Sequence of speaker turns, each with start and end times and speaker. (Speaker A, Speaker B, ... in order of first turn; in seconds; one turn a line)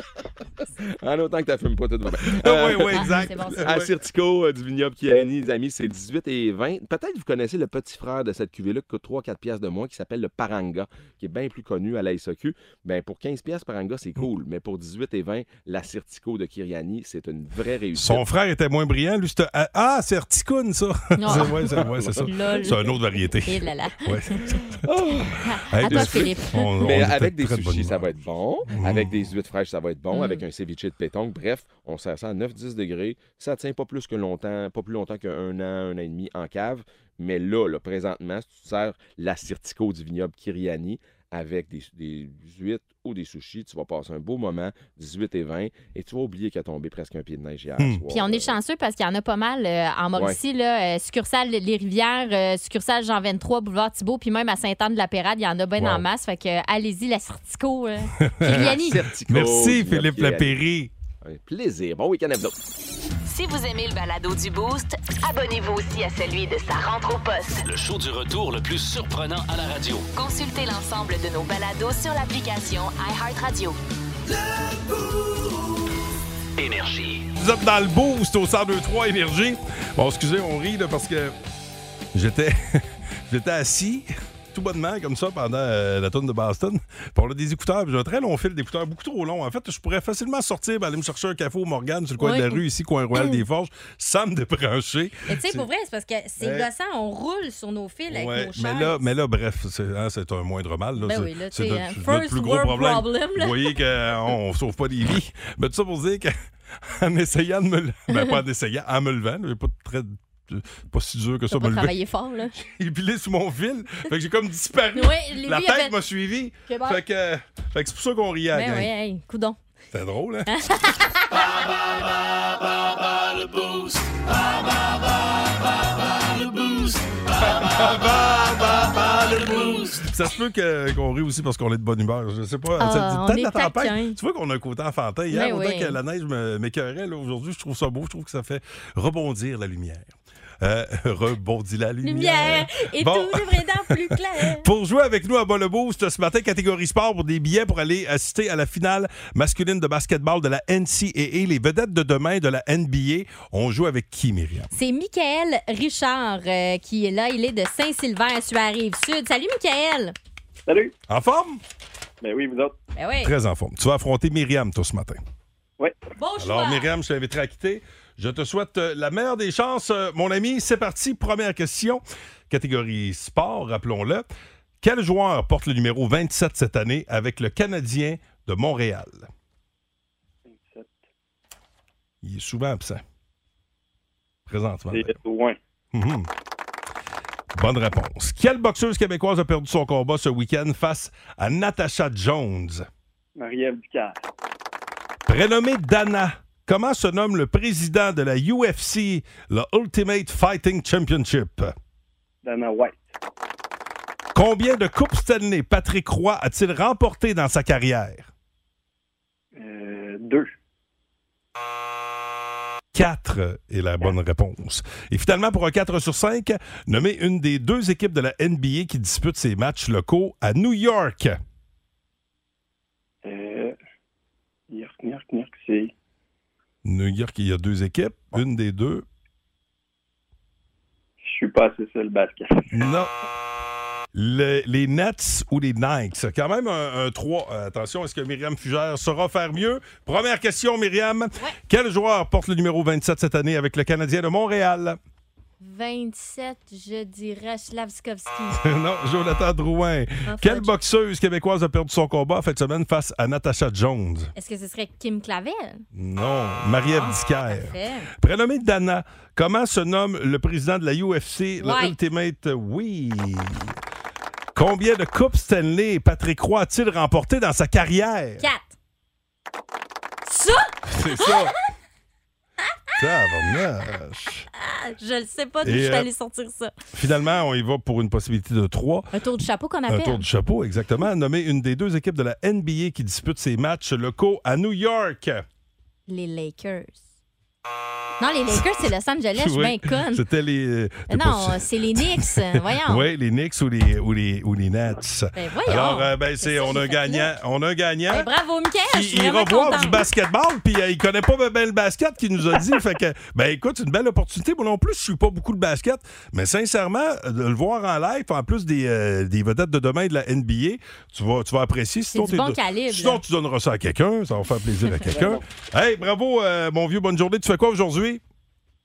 Speaker A: 0.8-18.2
Speaker B: 2.2-3.9
Speaker C: 3.0-3.6
Speaker B: 18.0-24.9
Speaker C: 21.2-24.6
Speaker A: 21.3-22.3
Speaker A: 24.9-48.6
Speaker C: 25.4-26.7
Speaker B: 25.7-28.1
Speaker B: 28.7-29.3
Speaker C: 30.1-30.4
Speaker B: 47.8-48.0
Speaker C: 48.1-59.0
Speaker B: 55.8-56.0
Speaker B: 58.2-60.9
Speaker A: 58.5-60.5
Speaker A: 61.2-62.5
Speaker D: 63.2-67.7
Speaker E: 67.7-70.1
Speaker D: 70.1-73.8
Speaker E: 76.6-77.3
Speaker B: 77.4-81.3
Speaker B: 82.1-95.7
Speaker C: 92.2-92.6
Speaker C: 93.2-93.4
Speaker C: 95.3-99.0
Speaker B: 96.4-96.7
Speaker B: 98.1-112.0
Speaker C: 101.0-103.8
Speaker C: 111.5-112.5
Speaker B: 112.6-118.9
Speaker C: 115.0-116.0
Speaker C: 116.7-117.0
Speaker C: 118.5-119.6
Speaker B: 119.9-120.5
Speaker C: 120.5-121.5
Speaker B: 127.4-154.7
Speaker C: 132.8-134.2
Speaker C: 135.3-136.0
Speaker C: 142.0-144.7
Speaker C: 154.7-160.2
Speaker F: 160.7-160.9
Speaker B: 161.1-161.6
Speaker F: 162.2-162.8
Speaker C: 162.9-163.3
Speaker B: 163.2-165.2
Speaker C: 166.2-166.9
Speaker B: 166.4-174.3
Speaker B: 174.8-179.3
Speaker F: 180.5-181.0
Speaker B: 182.2-183.0
Speaker B: 184.5-185.2
Speaker F: 184.9-185.6
Speaker B: 185.9-186.3
Speaker B: 187.6-192.9
Speaker F: 193.4-194.2
Speaker B: 195.3-201.7
Speaker F: 202.4-203.1
Speaker B: 204.3-208.3
Speaker F: 209.5-210.5
Speaker B: 212.9-221.4
Speaker F: 223.2-223.8
Speaker F: 224.7-225.9
Speaker B: 226.8-229.1
Speaker F: 231.2-232.9
Speaker B: 232.7-233.1
Speaker B: 234.1-245.0
Speaker C: 245.6-248.6
Speaker B: 248.6-254.3
Speaker C: 250.3-250.7
Speaker C: 254.4-255.8
Speaker B: 255.9-263.8
Speaker C: 256.9-258.1
Speaker C: 261.6-261.9
Speaker B: 264.6-268.4
Speaker C: 268.4-268.7
Speaker C: 270.3-271.5
Speaker B: 270.9-271.6
Speaker B: 273.0-274.5
Speaker C: 274.6-276.7
Speaker B: 275.6-276.1
Speaker B: 276.9-279.1
Speaker C: 279.1-280.3
Speaker B: 279.9-285.4
Speaker C: 286.1-287.0
Speaker C: 288.2-290.2
Speaker B: 289.4-298.3
Speaker C: 291.1-293.1
Speaker C: 295.4-297.3
Speaker C: 298.1-300.0
Speaker B: 298.9-318.2
Speaker C: 312.1-313.2
Speaker F: 315.1-315.4